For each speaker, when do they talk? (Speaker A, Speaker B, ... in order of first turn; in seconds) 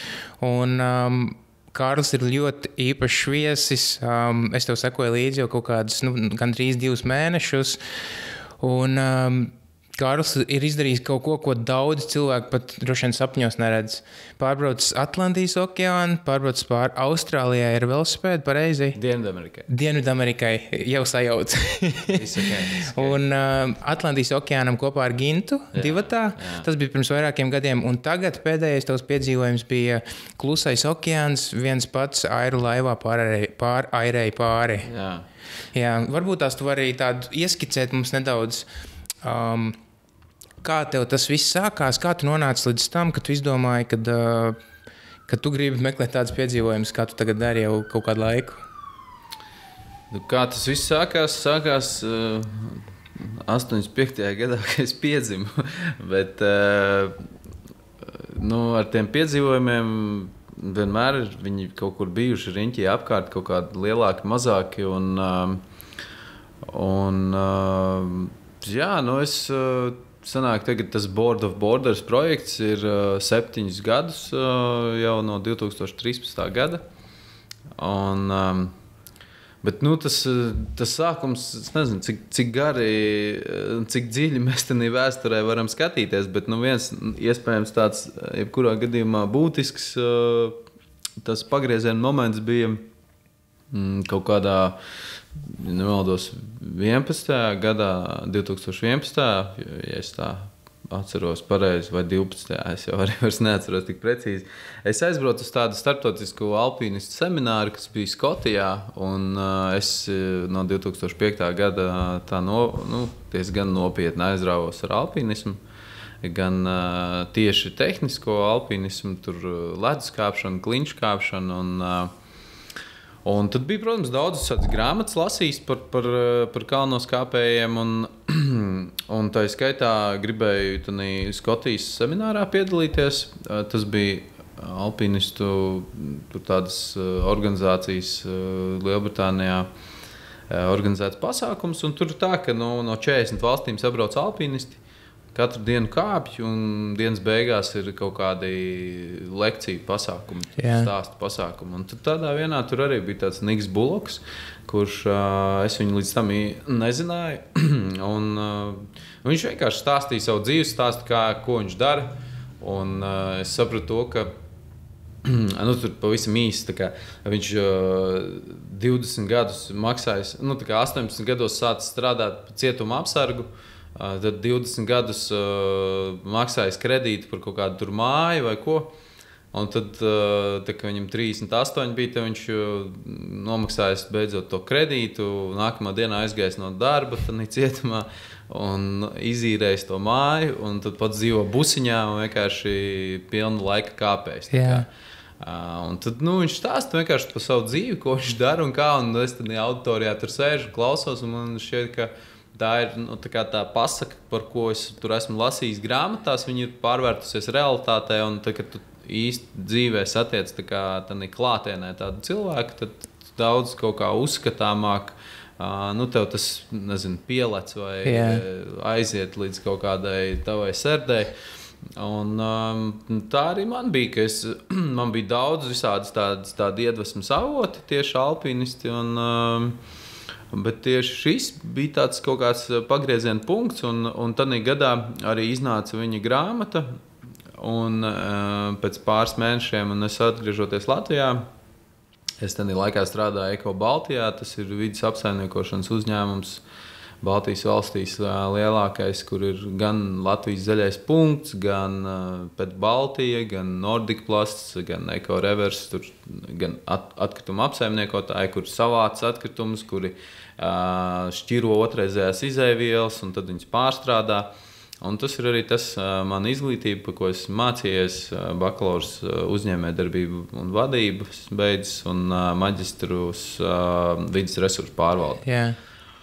Speaker A: 0.4-7.8, 8.6-19.0, 19.7-34.9, 35.7-38.7, 39.2-39.8, 40.6-44.6, 45.3-48.6, 150.6-150.9, 194.5-194.8, 218.0-218.4, 275.4-275.8
Speaker B: 18.9-19.6, 22.1-23.2, 25.7-26.7, 34.8-35.2, 50.1-57.1, 58.0-65.6, 66.6-76.8, 77.8-78.7, 79.6-90.6, 91.2-92.9, 93.7-94.8, 95.3-115.6, 116.2-122.1, 123.2-139.7, 140.5-144.8, 145.3-164.3, 165.2-178.9, 179.5-194.8, 195.4-221.3, 221.9-229.8, 230.5-236.9, 237.5-241.4, 242.4-246.6, 247.2-264.5, 265.0-275.4